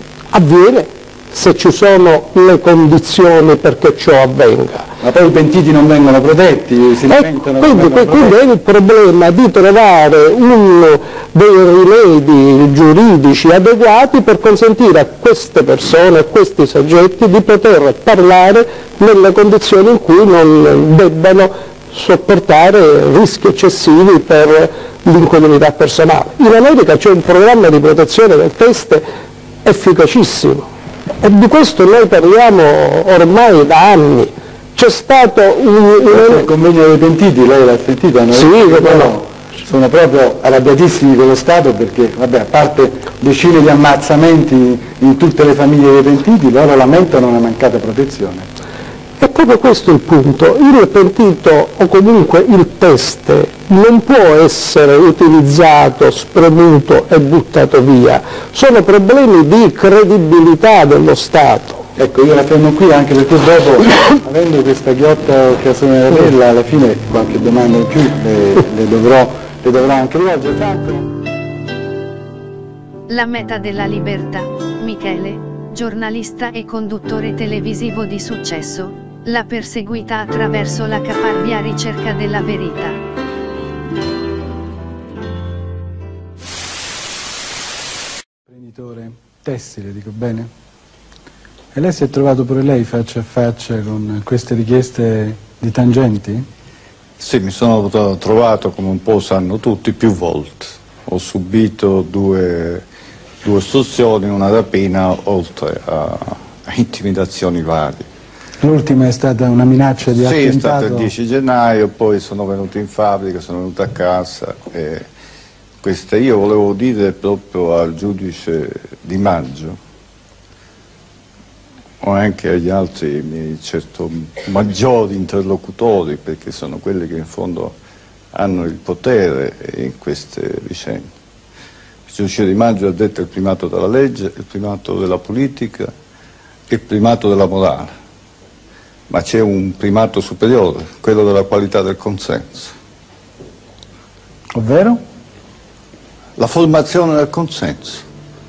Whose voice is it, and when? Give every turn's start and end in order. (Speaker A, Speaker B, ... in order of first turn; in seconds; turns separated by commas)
Speaker A: 0.3-4.9, Speaker B: 5.1-8.3, Speaker A: 7.0-29.0, Speaker A: 29.6-30.7, Speaker A: 31.2-36.5, Speaker B: 36.1-48.5, Speaker A: 38.3-39.2, Speaker A: 49.2-61.9, Speaker B: 62.0-71.0, Speaker C: 73.1-83.0, Speaker B: 88.5-90.5, Speaker B: 91.7-96.5, Speaker D: 97.2-102.8, Speaker D: 103.4-108.0, Speaker B: 108.6-111.1, Speaker D: 110.1-115.0, Speaker D: 115.8-119.8, Speaker D: 122.0-127.7, Speaker D: 128.3-131.0, Speaker D: 132.1-135.9, Speaker D: 136.7-137.9, Speaker D: 139.1-142.7, Speaker B: 144.5-145.0, Speaker D: 146.4-148.0